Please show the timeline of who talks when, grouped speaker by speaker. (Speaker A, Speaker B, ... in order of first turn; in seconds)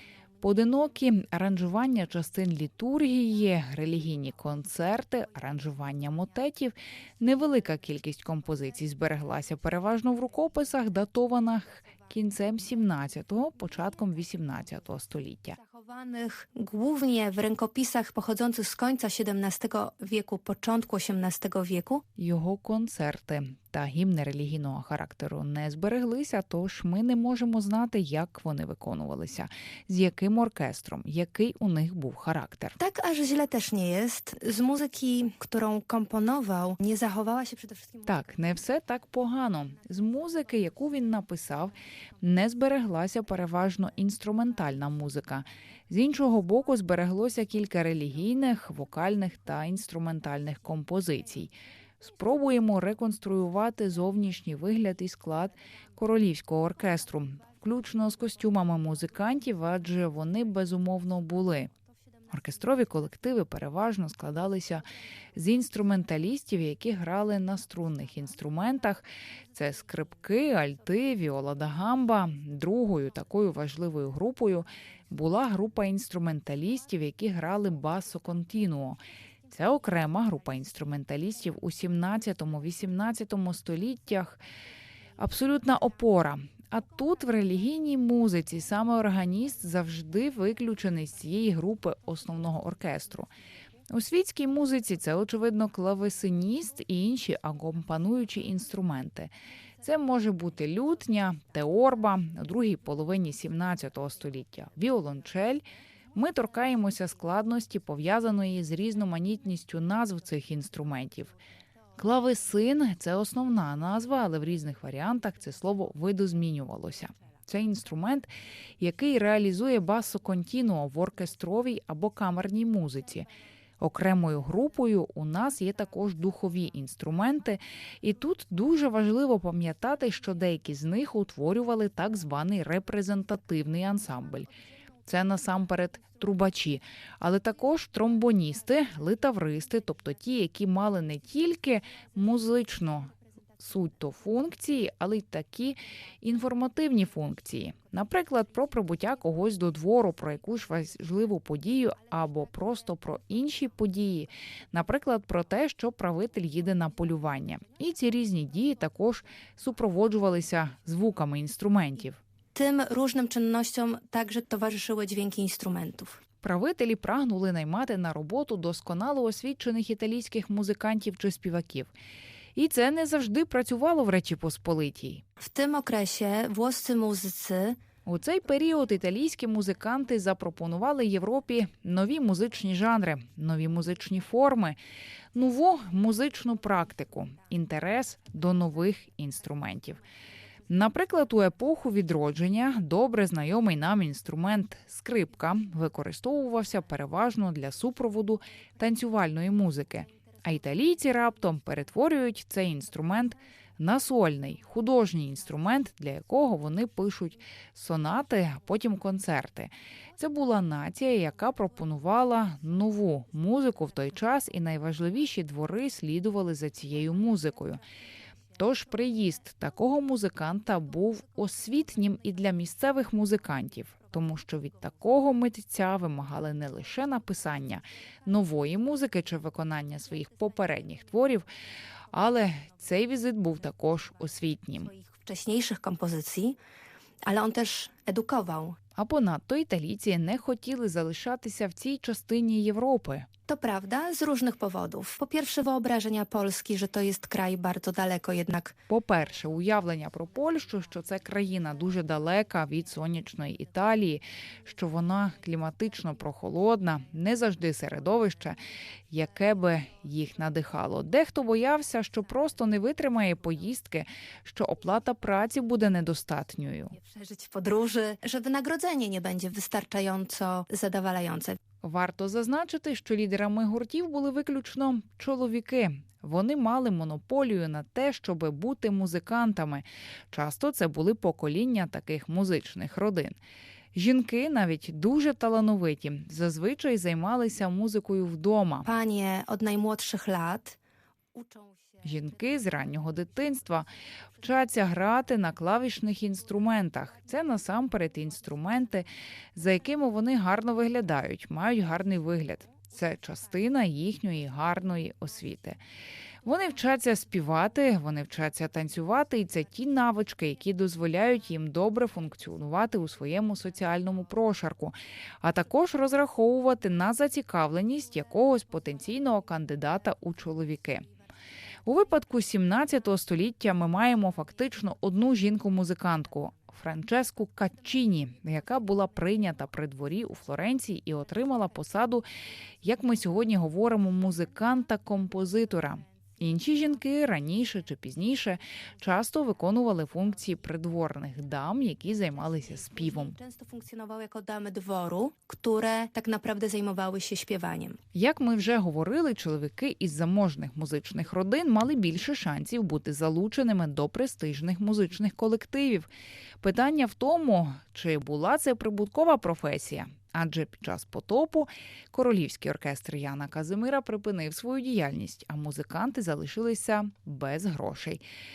Speaker A: 0.4-15.6, 22.2-32.8, 38.1-61.7, 62.3-64.8, 65.4-84.4, 85.2-93.3, 93.9-105.6, 106.1-111.4, 112.0-123.3, 123.8-134.5, 135.1-162.2, 166.4-171.9, 172.6-175.2, 178.1-184.8, 185.3-190.0, 190.7-217.8, 218.6-231.5, 232.1-234.9, 239.0-243.3, 248.9-258.6, 259.1-266.9, 271.8-283.4, 283.9-288.9, 292.0-293.9, 294.4-305.8, 306.4-321.1, 321.9-332.2, 332.8-343.4, 348.1-356.1, 356.6-368.2
Speaker B: 15.6-22.0, 32.8-38.2, 162.6-166.2, 175.4-177.8, 234.8-236.6, 237.2-238.8, 243.5-248.8, 266.9-271.6, 288.8-290.8, 291.3-292.0, 342.7-348.0